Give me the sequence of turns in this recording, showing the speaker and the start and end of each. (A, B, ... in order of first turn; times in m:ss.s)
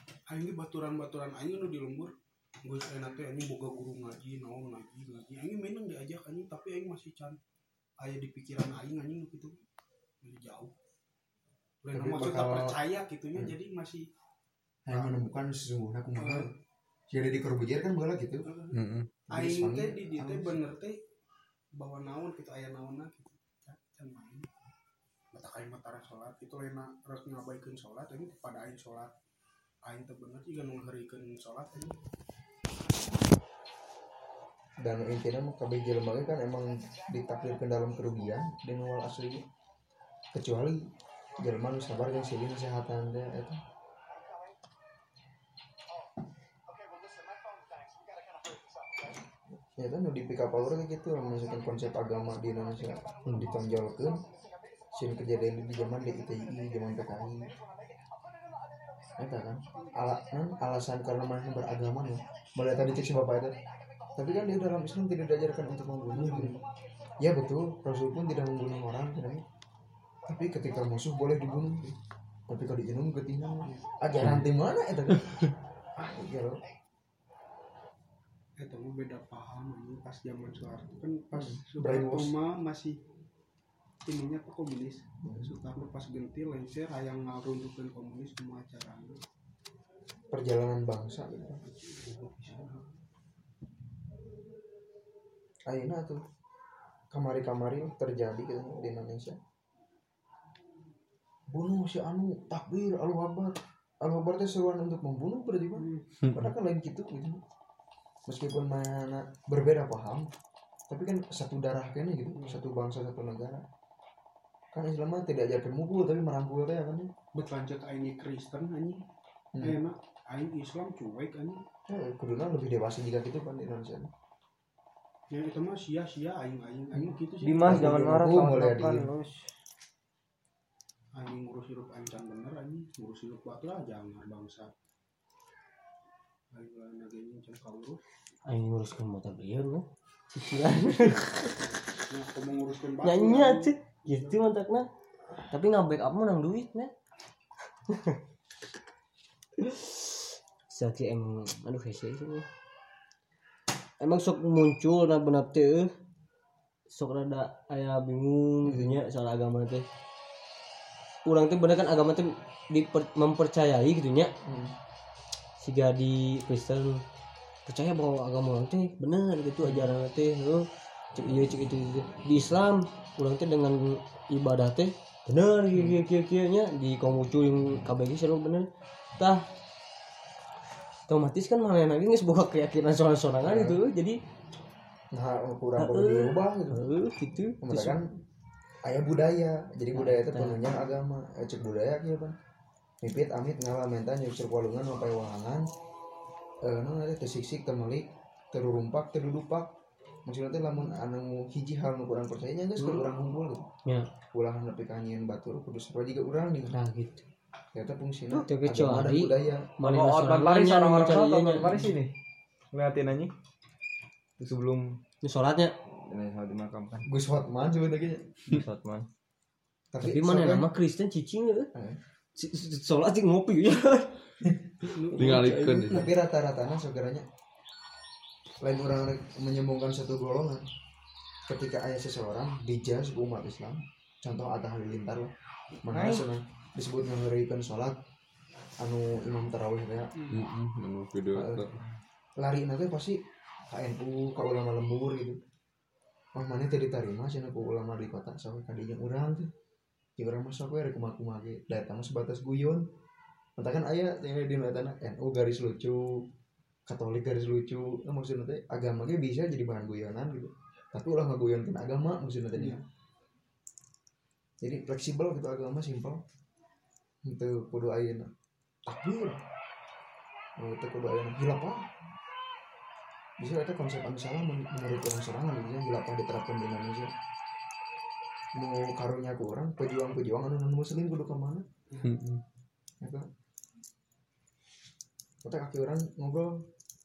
0:00.3-0:02.1 A
0:02.6-0:07.4 A
0:08.0-0:09.6 A
0:10.2-0:10.7 A
0:11.8-0:14.1 A
0:11.9-0:12.8 B
0:14.9-0:16.5 B
0:14.9-0:15.2 A
0:16.2-0:16.5 A
0:17.1-0:18.5 B
0:18.5-0:18.8 A
0:18.7-0:19.1 C
0:19.3-0:21.0 A
0:19.3-0:20.6 B
0:21.8-0:24.5 A
0:25.3-0:29.1 A
0:29.8-0:32.0 A
0:34.8-0:39.4 B
0:40.3-0:40.8 B
0:41.4-0:43.6 B
0:49.8-0:54.2 B
0:54.9-0:57.5 B
0:59.2-1:03.6 B
1:04.2-1:06.6 B
1:06.1-1:06.6 A
1:07.2-1:09.4 B
1:10.3-1:12.0 B
1:12.5-1:15.3 B
1:16.0-1:16.6 B
1:18.6-1:23.0 A
1:21.3-1:22.3 B
1:24.1-1:29.2 A
1:25.2-1:25.5 B
1:30.3-1:31.6 B
1:31.7-1:32.9 A
1:35.7-1:36.2 B
1:37.1-1:39.4 B
1:41.5-1:47.4 B
1:46.2-1:46.5 C
1:48.3-1:50.3 B
1:50.9-1:53.6 B
1:54.7-1:57.1 B
1:57.4-1:59.0 A
1:59.6-2:01.6 A
2:01.9-2:04.1 B
2:05.3-2:08.1 A
2:07.4-2:09.4 D
2:07.6-2:09.1 B
2:11.2-2:14.7 A
2:16.5-2:18.0 A
2:18.5-2:21.5 E
2:22.0-2:24.4 A
2:23.0-2:24.9 E
2:25.5-2:26.9 E
2:27.9-2:28.2 E
2:29.6-2:32.5 E
2:34.0-2:35.9 E
2:36.9-2:39.8 E
2:38.6-2:39.0 B
2:41.2-2:44.3 E
2:44.4-2:44.8 B
2:45.6-2:47.0 E
2:47.7-2:58.7 E
2:59.2-2:59.4 E
3:01.1-3:04.2 E
3:03.4-3:03.8 B
3:05.1-3:06.8 B
3:05.8-3:08.0 E
3:07.6-3:08.1 B
3:08.8-3:12.4 B
3:09.9-3:10.6 E
3:13.0-3:15.6 B
3:16.6-3:19.7 B
3:20.3-3:23.7 B
3:22.8-3:23.0 E
3:24.3-3:26.7 B
3:26.7-3:27.2 E
3:27.7-3:29.8 B
3:28.3-3:31.9 E
3:29.9-3:32.1 D
3:32.7-3:33.3 D
3:34.4-3:35.0 D
3:35.2-3:35.7 E
3:36.1-3:37.1 D
3:37.1-3:38.3 B
3:38.5-3:39.1 D
3:39.9-3:40.7 B
3:40.0-3:41.7 E
3:42.4-3:44.1 E
3:44.9-3:45.7 A
3:45.1-3:46.1 C
3:45.1-3:46.0 E
3:45.9-3:47.3 B
3:48.6-3:50.6 B
3:51.5-3:55.3 B
3:55.8-3:58.0 B
3:58.8-4:00.1 B
4:00.3-4:01.8 C
4:01.3-4:01.7 B
4:02.4-4:03.2 B
4:03.7-4:05.4 B
4:06.4-4:09.5 B
4:10.2-4:12.8 B
4:13.6-4:16.1 B
4:16.9-4:22.8 B
4:24.6-4:26.2 B
4:27.3-4:28.3 B
4:28.9-4:29.4 B
4:30.6-4:31.9 B
4:33.4-4:37.1 B
4:38.6-4:41.6 B
4:42.0-4:42.4 C
4:45.4-4:46.6 B